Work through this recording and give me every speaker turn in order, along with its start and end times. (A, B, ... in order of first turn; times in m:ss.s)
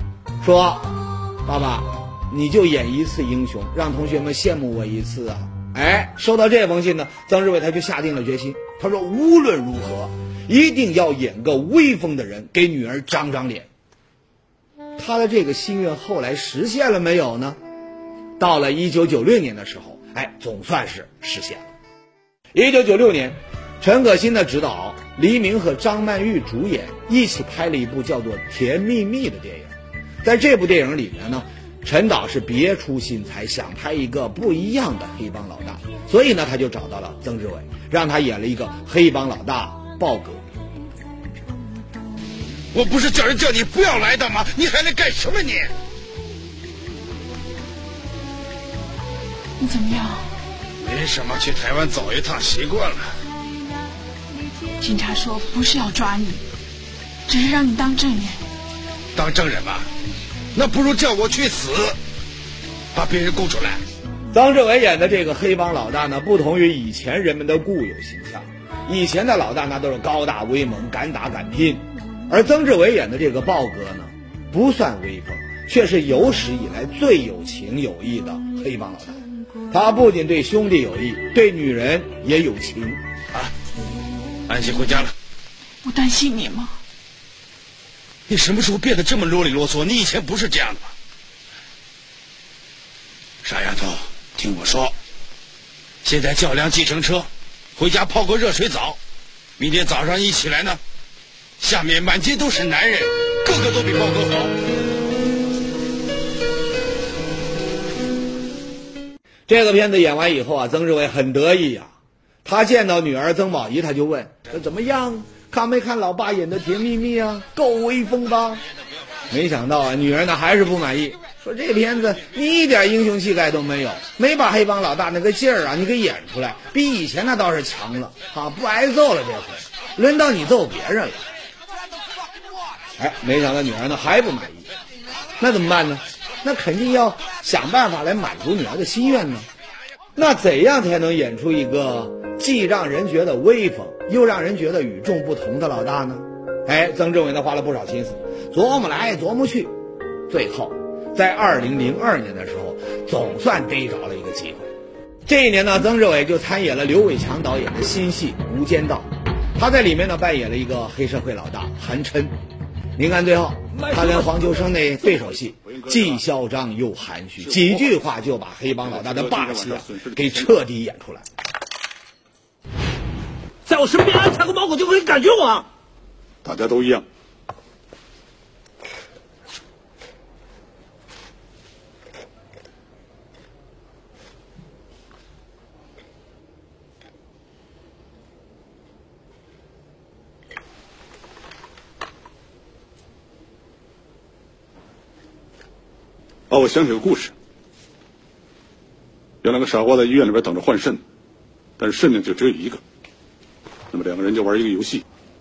0:00.4-0:13.7 A
0:15.0-0:17.6 A
0:18.4-0:21.6 A
0:22.5-0:29.7 A
0:30.2-0:40.4 A
0:42.7-0:45.7 B
0:49.6-0:50.3 C
0:50.8-0:53.1 B
0:54.8-0:56.4 C
0:57.3-0:58.4 C
0:59.1-0:59.9 B
1:00.5-1:02.0 B
1:02.9-1:03.8 B
1:04.3-1:23.0 A
1:24.5-1:25.1 B
1:25.8-1:26.8 C
1:28.3-1:30.9 B
1:33.4-1:34.9 B
1:36.0-1:39.0 B
1:39.6-1:40.8 B
1:41.6-1:44.5 B
1:49.5-1:51.9 A
1:52.4-1:58.6 A
1:59.3-2:11.2 A
2:13.0-2:14.7 A
2:15.4-2:19.5 A
2:20.2-2:29.7 A
2:30.3-2:34.7 A
2:35.2-2:42.3 A
2:43.0-2:51.2 A
2:48.9-2:50.4 D
2:53.7-2:55.6 E
2:56.4-2:57.0 D
3:16.5-3:17.3 D
3:19.4-3:21.0 D
3:21.8-3:22.8 D
3:23.9-3:25.0 D